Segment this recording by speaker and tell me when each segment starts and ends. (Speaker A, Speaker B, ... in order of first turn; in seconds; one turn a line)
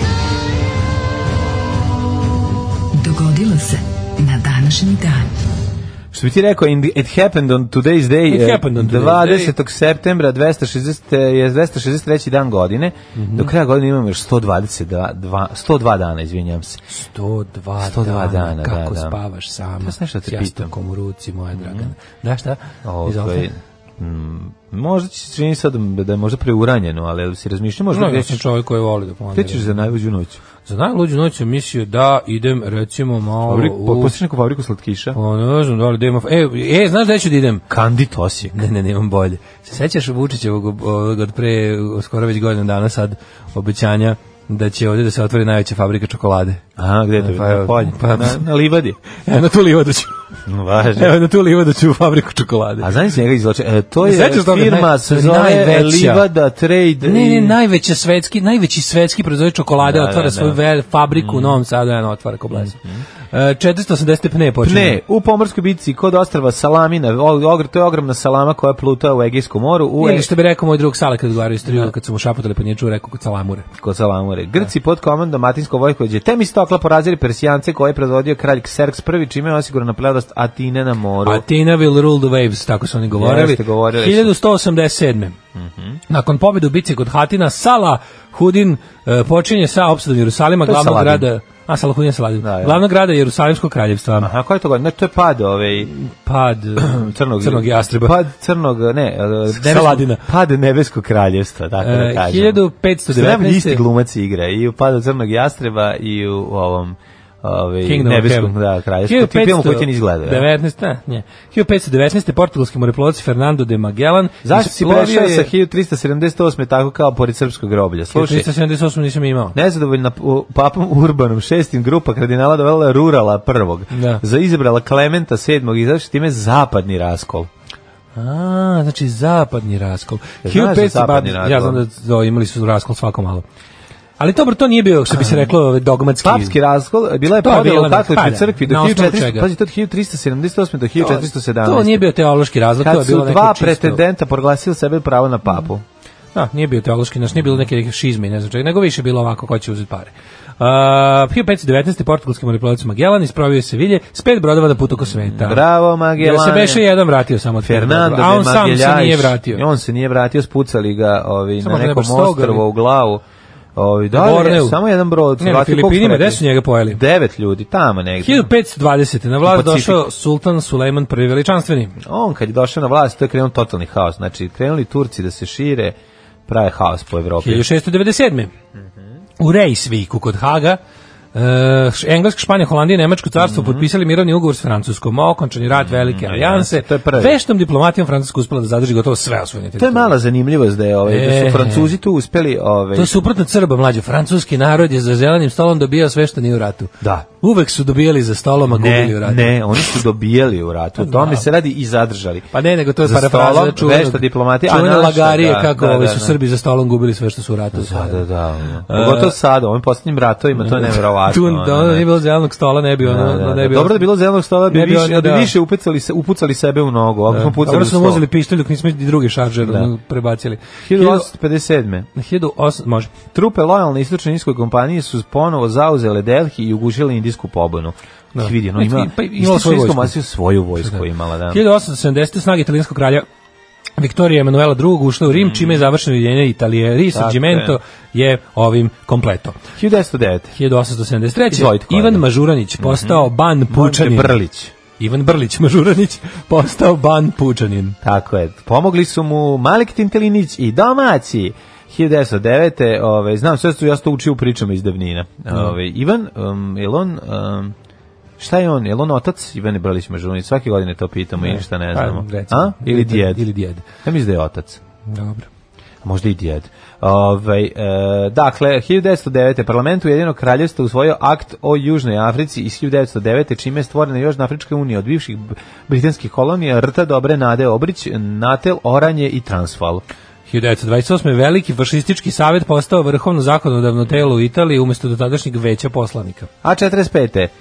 Speaker A: 3.0-5.3
Speaker B: 6.1-16.8
Speaker C: 8.3-9.5
Speaker C: 13.1-13.5
Speaker C: 16.9-23.5
Speaker B: 17.8-19.2
Speaker B: 19.8-20.7
Speaker B: 21.6-21.9
Speaker B: 22.8-28.4
Speaker C: 27.9-29.7
Speaker B: 29.3-30.4
Speaker C: 30.6-34.1
Speaker B: 33.4-35.2
Speaker C: 35.1-37.6
Speaker B: 37.7-38.6
Speaker C: 38.5-46.6
Speaker B: 46.8-49.0
Speaker C: 47.2-48.5
Speaker C: 49.2-50.1
Speaker B: 50.5-51.1
Speaker C: 51.0-52.9
Speaker B: 52.8-57.6
Speaker C: 54.0-56.2
Speaker C: 57.0-62.8
Speaker B: 59.8-60.6
Speaker B: 61.1-61.6
Speaker B: 62.5-63.0
Speaker C: 63.3-65.0
Speaker B: 64.6-70.3
Speaker C: 70.0-73.7
Speaker B: 71.6-71.9
Speaker B: 73.7-81.4
Speaker C: 81.2-85.4
Speaker B: 83.1-84.3
Speaker B: 85.5-86.0
Speaker C: 86.1-94.3
Speaker B: 90.6-91.2
Speaker B: 92.4-92.8
Speaker B: 94.2-95.9
Speaker C: 95.9-98.2
Speaker B: 96.8-110.5
Speaker C: 99.5-100.2
Speaker C: 101.8-103.8
Speaker C: 107.8-108.5
Speaker C: 109.0-115.5
Speaker B: 114.4-118.5
Speaker C: 118.1-119.6
Speaker B: 119.5-127.5
Speaker C: 123.9-124.2
Speaker C: 128.2-133.4
Speaker B: 130.4-131.8
Speaker C: 134.2-136.6
Speaker B: 135.1-135.5
Speaker B: 136.2-142.1
Speaker C: 137.4-139.5
Speaker C: 141.0-144.0
Speaker B: 142.8-145.8
Speaker C: 146.3-155.6
Speaker B: 155.1-156.9
Speaker C: 156.2-159.6
Speaker B: 157.6-163.2
Speaker C: 161.6-162.6
Speaker B: 163.8-168.5
Speaker C: 164.1-164.8
Speaker C: 165.4-167.0
Speaker C: 168.2-171.9
Speaker B: 169.4-170.1
Speaker B: 172.0-175.9
Speaker B: 176.5-177.7
Speaker C: 177.4-178.5
Speaker C: 179.4-180.8
Speaker C: 181.3-190.1
Speaker B: 183.4-183.9
Speaker B: 185.8-187.4
Speaker B: 189.8-193.2
Speaker C: 191.1-191.9
Speaker C: 192.9-199.8
Speaker B: 197.0-197.2
Speaker B: 198.7-202.5
Speaker C: 201.0-201.4
Speaker C: 202.5-208.2
Speaker B: 203.0-206.4
Speaker B: 207.7-212.1
Speaker C: 208.9-209.4
Speaker C: 210.6-214.1
Speaker B: 213.0-218.2
Speaker C: 214.7-215.5
Speaker C: 217.3-221.3
Speaker B: 219.6-219.9
Speaker B: 220.8-222.1
Speaker C: 222.1-223.1
Speaker B: 223.3-231.6
Speaker C: 228.3-230.1
Speaker C: 230.8-233.2
Speaker C: 234.0-239.6
Speaker B: 235.3-235.9
Speaker B: 237.1-237.8
Speaker B: 239.8-240.5
Speaker C: 240.6-244.4
Speaker B: 241.5-242.3
Speaker B: 242.8-244.7
Speaker C: 245.0-248.0
Speaker B: 248.0-257.7
Speaker B: 258.4-264.8
Speaker C: 261.4-263.8
Speaker C: 265.1-265.5
Speaker B: 266.0-280.0
Speaker C: 280.5-286.5
Speaker B: 286.6-287.5